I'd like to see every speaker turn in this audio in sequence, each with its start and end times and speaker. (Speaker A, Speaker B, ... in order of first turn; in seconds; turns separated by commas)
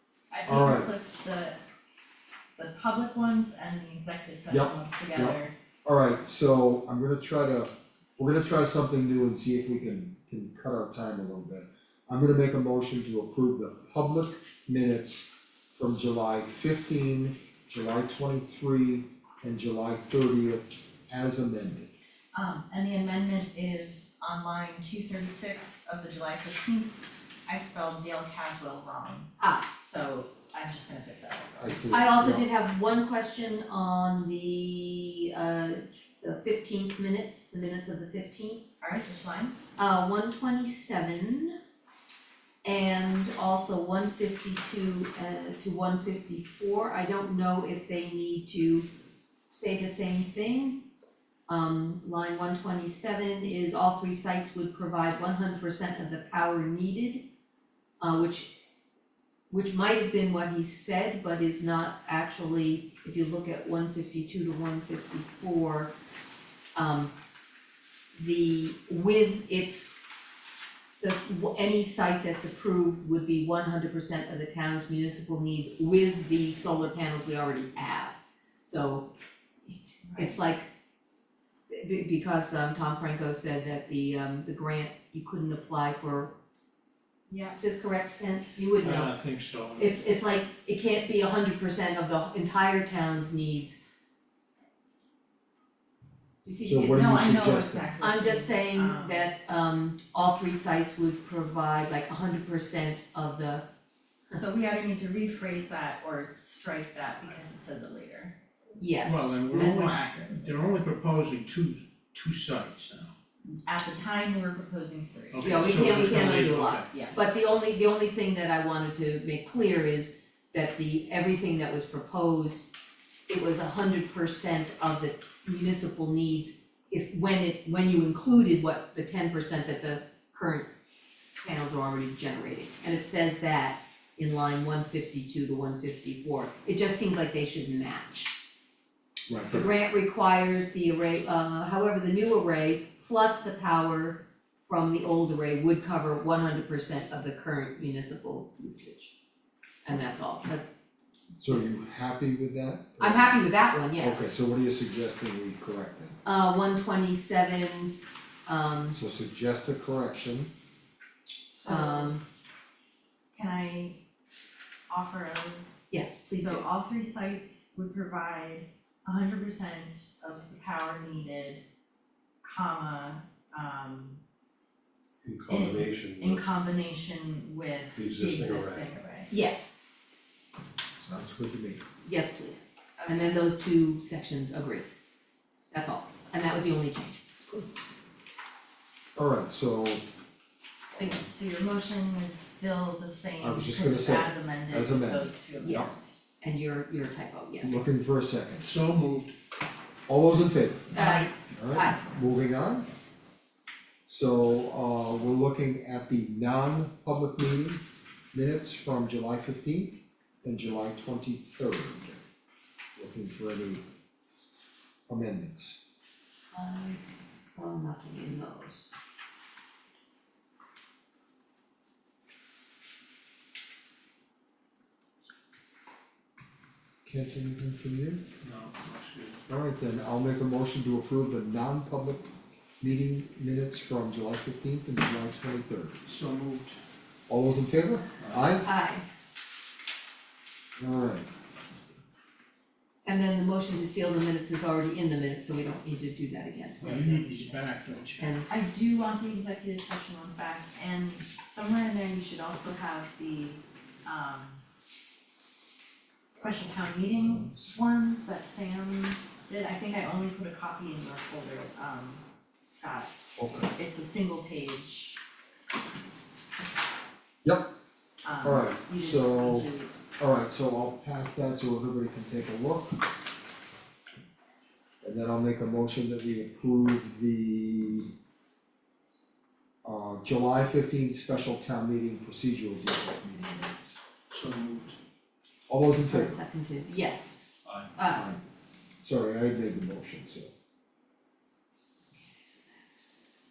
Speaker A: 0.3-1.6, Speaker B: 0.5-0.9, Speaker A: 2.6-5.5, Speaker B: 4.5-21.9, Speaker A: 22.3-31.8, Speaker C: 29.4-29.7, Speaker B: 31.6-32.5, Speaker C: 31.9-38.6, Speaker A: 38.8-39.6, Speaker C: 39.8-41.5, Speaker C: 42.6-48.9, Speaker C: 49.5-50.8, Speaker C: 51.5-57.3, Speaker C: 58.0-58.5, Speaker C: 59.5-65.9, Speaker C: 66.8-67.1, Speaker C: 68.2-69.9, Speaker C: 71.0-79.1, Speaker C: 79.7-80.7, Speaker A: 80.1-80.4, Speaker C: 81.7-86.3, Speaker A: 87.3-87.6, Speaker C: 87.6-89.1, Speaker D: 88.8-90.0, Speaker C: 89.8-93.8, Speaker C: 96.4-103.7, Speaker B: 96.6-97.9, Speaker A: 96.9-99.3, Speaker A: 104.3-108.3, Speaker C: 108.8-109.3, Speaker D: 109.0-113.1, Speaker A: 109.5-110.5, Speaker A: 113.7-115.9, Speaker D: 115.3-116.9, Speaker C: 115.4-122.6, Speaker A: 116.9-117.2, Speaker C: 123.3-130.7, Speaker C: 131.4-138.4, Speaker B: 139.3-139.7, Speaker C: 139.5-149.1, Speaker C: 149.8-150.7, Speaker B: 151.4-153.4, Speaker C: 153.0-154.3, Speaker B: 153.9-156.2, Speaker C: 156.2-159.0, Speaker B: 158.9-160.5, Speaker A: 161.5-162.2, Speaker C: 161.7-162.2, Speaker A: 163.3-164.0, Speaker A: 164.9-165.7, Speaker C: 165.9-166.7, Speaker A: 166.3-171.6, Speaker A: 172.4-174.2, Speaker E: 175.2-176.4, Speaker A: 175.5-179.3, Speaker E: 178.0-178.8, Speaker C: 179.3-179.7, Speaker B: 181.0-181.8, Speaker C: 182.1-184.9, Speaker A: 183.0-183.4, Speaker C: 185.7-187.2, Speaker B: 189.2-190.0, Speaker A: 190.9-196.2, Speaker B: 193.4-195.9, Speaker C: 195.6-197.8, Speaker B: 197.6-198.7, Speaker D: 198.6-199.3, Speaker B: 200.1-202.9, Speaker D: 200.9-201.3, Speaker C: 200.9-202.0, Speaker B: 204.1-207.8, Speaker B: 208.3-212.2, Speaker B: 213.0-213.8, Speaker B: 215.1-215.8, Speaker C: 216.5-218.9, Speaker B: 227.1-228.2, Speaker D: 228.4-229.4, Speaker B: 229.5-232.2, Speaker B: 232.8-236.2, Speaker D: 236.1-236.8, Speaker B: 237.3-238.7, Speaker D: 238.2-238.7, Speaker C: 238.7-239.1, Speaker B: 240.8-241.3, Speaker C: 243.1-247.6, Speaker D: 246.8-248.4, Speaker C: 248.2-248.5, Speaker A: 248.5-254.6, Speaker A: 256.3-263.1, Speaker B: 263.4-263.7, Speaker A: 263.7-265.2, Speaker A: 268.2-269.9, Speaker B: 268.4-273.0, Speaker B: 275.0-278.1, Speaker B: 279.8-284.0, Speaker D: 284.3-285.0, Speaker B: 285.7-286.4, Speaker C: 286.1-288.3, Speaker B: 288.1-288.4, Speaker B: 289.0-290.5, Speaker C: 292.2-293.1